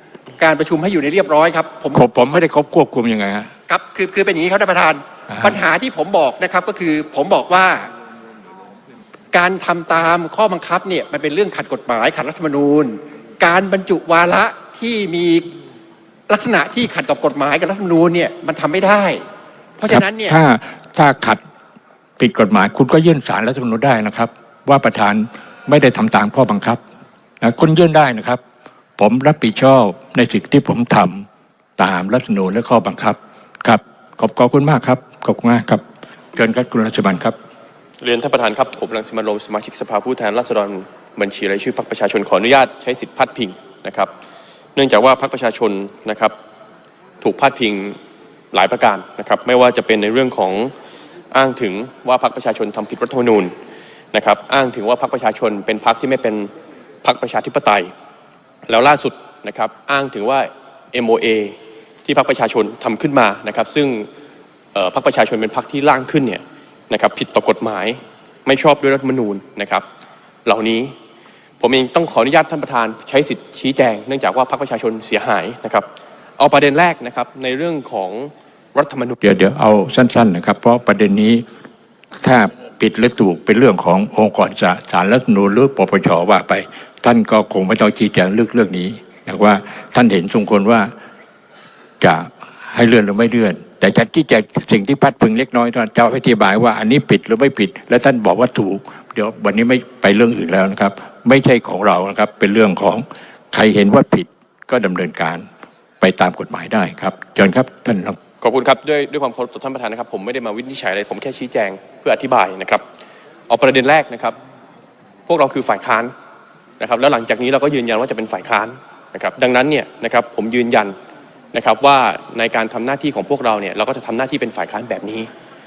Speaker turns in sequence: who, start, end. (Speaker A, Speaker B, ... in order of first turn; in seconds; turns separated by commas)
Speaker A: 0.4-2.4, Speaker B: 1.9-3.5, Speaker A: 3.7-7.9, Speaker B: 5.3-5.6, Speaker A: 9.3-15.5, Speaker A: 16.3-19.2, Speaker A: 19.8-20.4, Speaker B: 19.9-21.4, Speaker B: 22.2-26.8, Speaker B: 27.4-28.4, Speaker B: 29.0-31.2, Speaker B: 31.8-35.8, Speaker B: 36.3-37.3, Speaker C: 38.0-44.1, Speaker C: 44.8-46.3, Speaker C: 47.2-48.0, Speaker C: 48.5-50.7, Speaker C: 51.3-53.5, Speaker C: 54.1-56.5, Speaker C: 57.0-57.9, Speaker C: 58.7-64.1, Speaker C: 64.7-69.8, Speaker C: 70.4-70.9, Speaker C: 71.6-75.8, Speaker C: 76.4-79.2, Speaker B: 79.2-81.4, Speaker B: 82.2-90.9, Speaker B: 92.0-105.5, Speaker B: 106.0-108.2, Speaker C: 108.4-112.8, Speaker C: 113.5-114.3, Speaker C: 115.3-116.1, Speaker C: 116.8-120.9, Speaker C: 121.5-125.3